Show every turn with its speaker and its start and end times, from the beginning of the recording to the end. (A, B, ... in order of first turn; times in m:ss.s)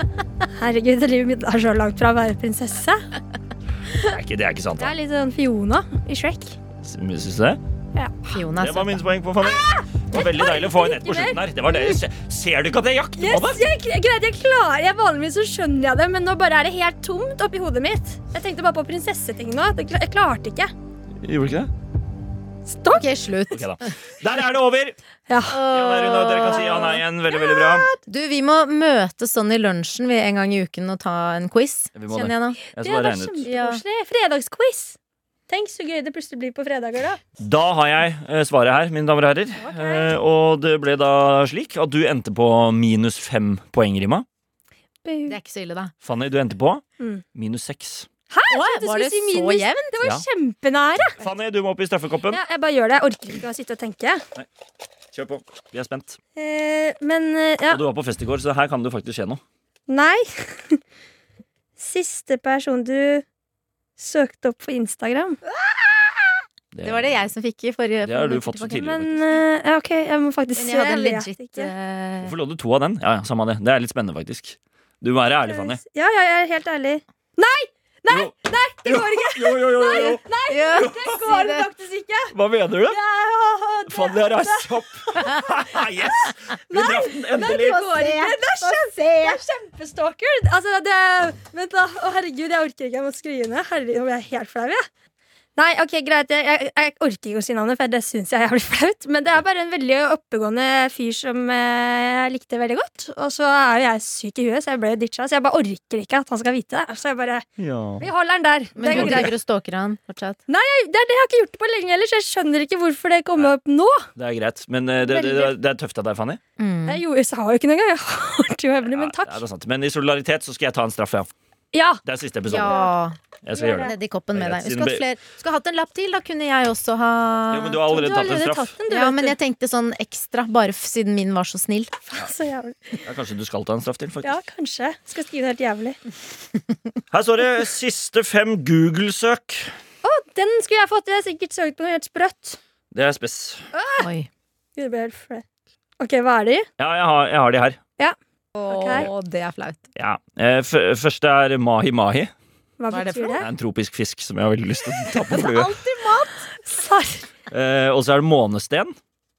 0:00.5-0:03.0 A
0:04.0-0:04.9 B
0:04.8-0:06.6 A
0:06.8-0:07.6 B
0:08.3-0:09.0 C
0:08.6-0:13.7 B
0:09.4-0:12.0 A
0:13.2-0:20.7 A
0:21.2-0:21.7 B
0:22.7-0:23.1 A
0:22.9-0:23.9 C
0:23.5-0:25.0 B
0:25.3-0:25.6 A
0:25.4-0:27.0 C
0:25.6-0:27.9 B
0:27.3-0:28.0 A
0:28.0-0:32.6 C
0:32.0-0:33.5 B
0:32.8-0:35.0 A
0:33.5-0:33.8 C
0:35.5-0:37.2 A
0:37.4-0:44.3 B
0:39.6-0:40.1 A
0:45.0-0:45.4 A
0:45.3-0:45.9 C
0:46.0-0:46.8 B
0:47.4-0:48.1 B
0:48.3-0:51.2 A
0:48.5-0:50.0 C
0:51.2-0:52.4 B
0:52.3-0:54.2 A
0:55.1-0:56.2 B
0:56.4-0:57.8 A
0:57.7-0:59.4 B
0:59.9-1:00.8 A
1:01.8-1:03.2 A
1:04.0-1:05.4 A
1:06.7-1:07.2 B
1:06.8-1:08.9 C
1:08.0-1:09.2 B
1:08.7-1:11.7 A
1:10.6-1:12.3 C
1:12.2-1:15.8 B
1:15.4-1:22.3 A
1:18.8-1:20.2 B
1:19.9-1:21.7 C
1:20.8-1:21.0 B
1:22.3-1:23.0 B
1:22.9-1:25.5 A
1:23.9-1:27.8 B
1:26.7-1:34.9 A
1:27.4-1:29.4 C
1:35.6-1:47.4 A
1:47.6-1:48.1 B
1:48.0-1:49.3 A
1:48.8-1:50.4 C
1:48.9-1:49.3 B
1:50.5-1:54.1 A
1:54.2-1:56.4 B
1:55.0-1:55.6 A
1:56.6-1:57.0 C
1:56.9-1:59.4 A
1:58.9-2:01.3 B
2:01.7-2:02.0 A
2:02.0-2:02.8 B
2:02.4-2:07.8 C
2:02.6-2:02.9 A
2:03.4-2:05.0 B
2:03.6-2:04.0 A
2:07.5-2:08.7 B
2:07.9-2:09.4 A
2:08.9-2:11.9 C
2:12.1-2:13.0 A
2:13.0-2:14.4 B
2:14.2-2:16.0 A
2:17.1-2:19.7 B
2:20.0-2:22.6 A
2:22.9-2:23.7 B
2:23.7-2:24.1 A
2:24.0-2:24.3 C
2:24.8-2:25.4 A
2:26.0-2:26.7 A
2:26.8-2:27.8 B
2:28.0-2:29.1 A
2:28.6-2:29.8 C
2:30.0-2:32.3 B
2:32.8-2:33.5 A
2:32.9-2:33.4 C
2:33.4-2:35.7 B
2:35.3-2:36.4 C
2:36.6-2:37.3 A
2:37.5-2:39.0 B